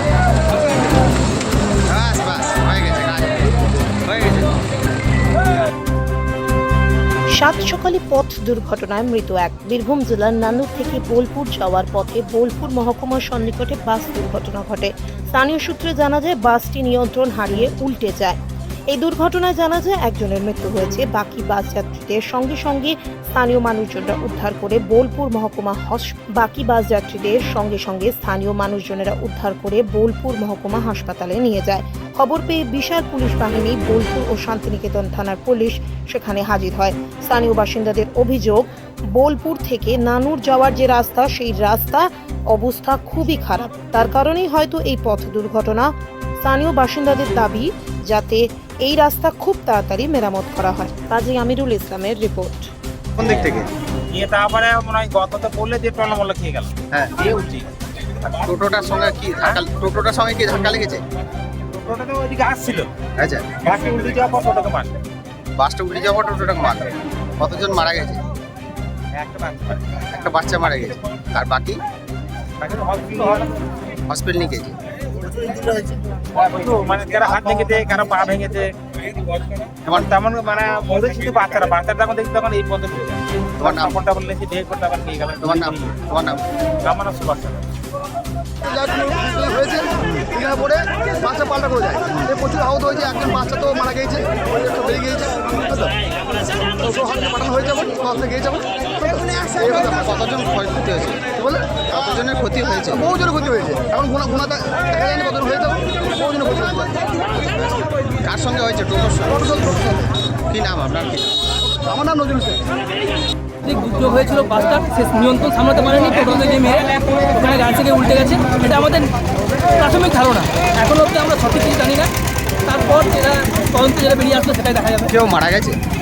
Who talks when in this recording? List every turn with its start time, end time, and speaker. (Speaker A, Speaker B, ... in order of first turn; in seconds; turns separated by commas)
Speaker A: 1.9-3.4, Speaker A: 4.0-4.5, Speaker B: 7.3-52.7, Speaker A: 53.2-53.7, Speaker C: 54.1-57.7, Speaker A: 56.9-57.3, Speaker A: 58.4-61.0, Speaker C: 61.7-62.9, Speaker A: 63.2-63.6, Speaker C: 63.6-65.0, Speaker A: 65.6-68.2, Speaker C: 69.1-70.0, Speaker A: 70.0-71.8, Speaker C: 72.6-73.6, Speaker A: 74.1-74.8, Speaker C: 75.8-86.0, Speaker A: 83.6-83.9, Speaker A: 85.4-86.4, Speaker C: 86.8-87.7, Speaker D: 88.8-89.9, Speaker A: 90.0-90.4, Speaker D: 90.4-95.9, Speaker A: 92.0-92.5, Speaker D: 96.8-99.2, Speaker A: 99.5-103.2, Speaker D: 103.2-106.9, Speaker A: 107.3-109.9, Speaker A: 110.5-111.3, Speaker D: 111.9-112.6, Speaker E: 113.6-119.1, Speaker E: 119.7-122.1, Speaker E: 122.6-125.1, Speaker A: 125.1-125.8